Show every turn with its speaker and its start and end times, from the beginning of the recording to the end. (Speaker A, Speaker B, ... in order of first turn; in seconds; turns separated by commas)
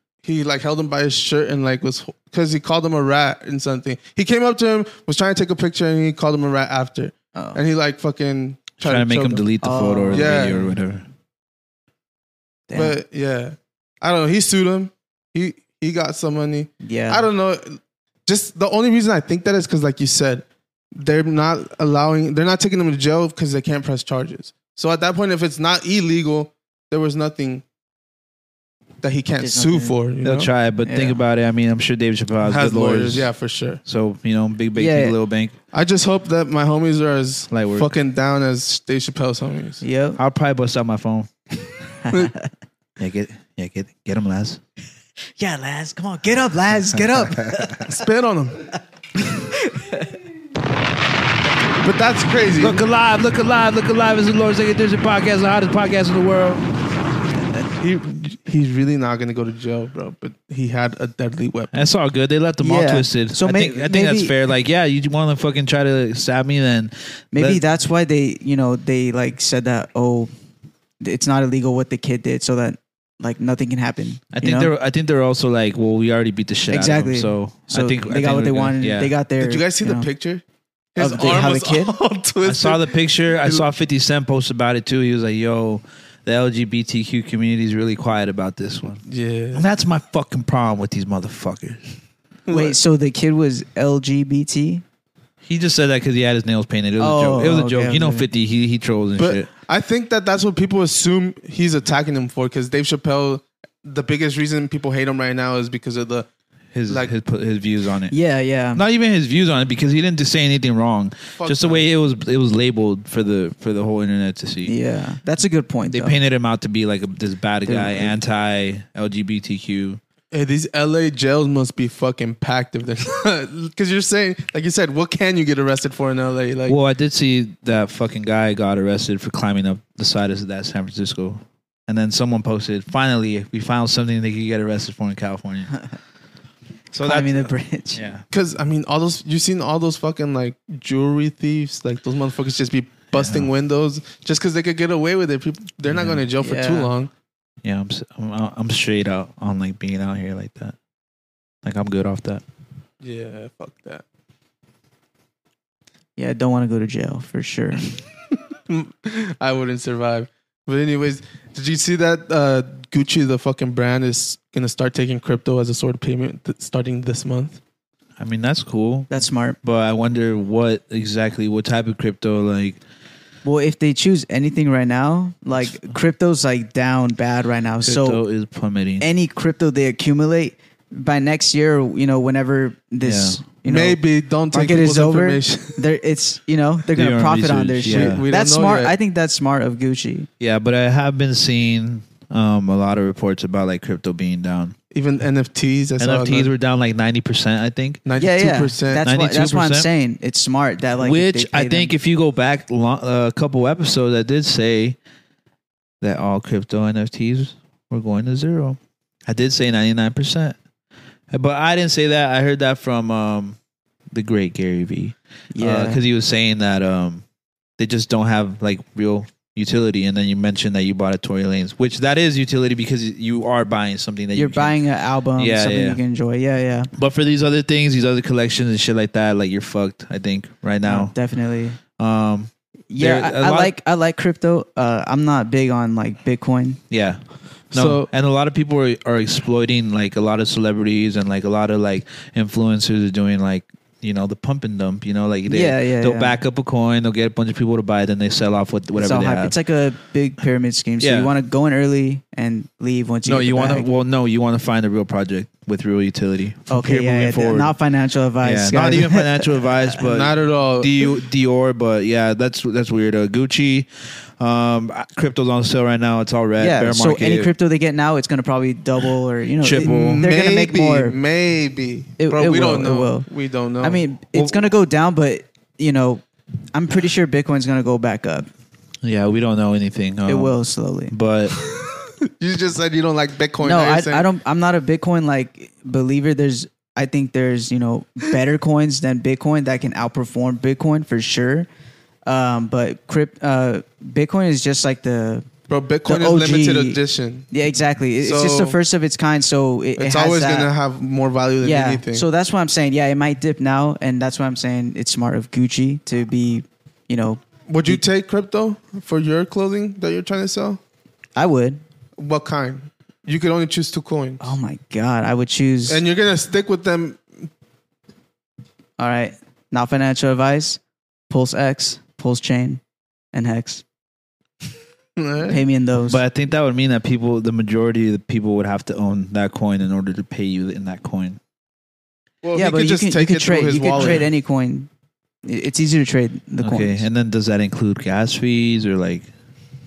Speaker A: 0.2-9.4, Speaker B: 7.3-7.6, Speaker C: 8.8-11.1, Speaker B: 9.6-10.7, Speaker A: 10.1-10.7, Speaker B: 12.7-13.0, Speaker A: 12.7-27.6, Speaker B: 16.8-17.3, Speaker A: 29.0-30.5, Speaker B: 29.4-30.0, Speaker C: 30.2-33.3, Speaker B: 30.8-31.2, Speaker A: 32.4-33.8, Speaker C: 33.9-35.5, Speaker B: 34.8-35.2, Speaker A: 35.7-39.8, Speaker C: 37.5-37.9, Speaker B: 39.8-40.2, Speaker C: 40.2-41.3, Speaker C: 43.0-44.6, Speaker B: 45.4-47.9, Speaker A: 47.8-48.7, Speaker B: 49.2-50.1, Speaker A: 51.8-52.8, Speaker C: 52.6-56.7, Speaker A: 57.8-61.8, Speaker C: 61.7-67.6, Speaker B: 62.6-64.3, Speaker B: 67.3-70.3, Speaker B: 71.0-74.7, Speaker C: 74.3-79.2, Speaker B: 76.7-80.1, Speaker A: 79.4-80.4, Speaker A: 81.0-82.8, Speaker B: 81.0-82.0, Speaker C: 82.4-89.0, Speaker A: 83.4-83.7, Speaker A: 89.1-89.7, Speaker C: 89.5-92.0, Speaker A: 92.5-92.8, Speaker B: 92.5-94.8, Speaker C: 95.4-99.5, Speaker B: 97.0-98.3, Speaker A: 99.2-106.3, Speaker C: 106.7-108.2, Speaker B: 108.1-108.8, Speaker C: 108.7-114.7, Speaker A: 111.4-111.8, Speaker B: 114.7-116.2, Speaker C: 115.9-120.0, Speaker B: 117.7-118.1, Speaker A: 120.3-126.8, Speaker C: 126.7-135.7, Speaker C: 136.9-138.2, Speaker B: 137.0-138.0, Speaker A: 138.3-147.1, Speaker C: 143.1-143.5, Speaker C: 145.9-146.2, Speaker B: 146.4-146.9, Speaker C: 147.6-150.8, Speaker C: 151.6-152.4, Speaker A: 153.0-154.0, Speaker B: 156.2-157.9, Speaker A: 158.7-167.6, Speaker C: 168.2-172.8, Speaker B: 169.1-169.6, Speaker B: 173.4-178.2, Speaker C: 177.8-179.1, Speaker B: 179.0-184.0, Speaker C: 183.0-183.4, Speaker A: 183.7-185.8, Speaker B: 184.5-190.3, Speaker C: 186.9-188.2, Speaker A: 187.9-188.9, Speaker C: 190.4-194.8, Speaker A: 194.9-196.5, Speaker C: 196.0-198.0, Speaker A: 198.1-199.1, Speaker B: 198.2-201.9, Speaker C: 199.0-199.9, Speaker C: 201.0-205.0, Speaker C: 206.0-210.6, Speaker C: 211.3-213.6, Speaker C: 214.1-217.2, Speaker B: 215.5-216.0, Speaker C: 217.8-224.8, Speaker B: 224.3-226.9, Speaker C: 225.4-226.0, Speaker C: 226.9-231.2, Speaker B: 230.8-231.8, Speaker C: 232.0-233.7, Speaker B: 232.9-236.8, Speaker C: 236.9-237.2, Speaker C: 237.7-249.5, Speaker A: 237.7-238.1, Speaker B: 245.5-246.4, Speaker B: 249.0-253.9, Speaker C: 251.0-251.3, Speaker C: 253.2-257.8, Speaker B: 256.7-259.7, Speaker C: 258.4-267.5, Speaker A: 260.0-260.9, Speaker B: 266.6-271.2, Speaker C: 269.6-270.2, Speaker A: 269.8-274.0, Speaker B: 272.2-273.3, Speaker B: 273.8-276.2, Speaker C: 274.3-274.6, Speaker B: 276.7-278.5, Speaker C: 279.0-280.6, Speaker B: 280.3-281.1, Speaker C: 281.1-281.6, Speaker A: 281.6-284.3, Speaker B: 283.6-291.7, Speaker B: 292.3-295.5, Speaker A: 295.7-297.5, Speaker B: 296.1-297.0, Speaker B: 297.5-300.7, Speaker A: 298.2-298.8, Speaker A: 300.0-302.3, Speaker B: 301.6-308.0, Speaker A: 307.7-310.8, Speaker B: 311.4-311.8, Speaker A: 312.2-314.5, Speaker B: 314.4-316.0, Speaker A: 315.9-317.4, Speaker B: 319.0-322.8, Speaker B: 323.3-323.8, Speaker A: 325.2-325.6, Speaker B: 325.5-326.2, Speaker C: 326.1-331.4, Speaker A: 332.4-334.3, Speaker B: 332.6-334.9, Speaker C: 334.0-334.2, Speaker B: 335.4-337.0, Speaker C: 336.6-339.3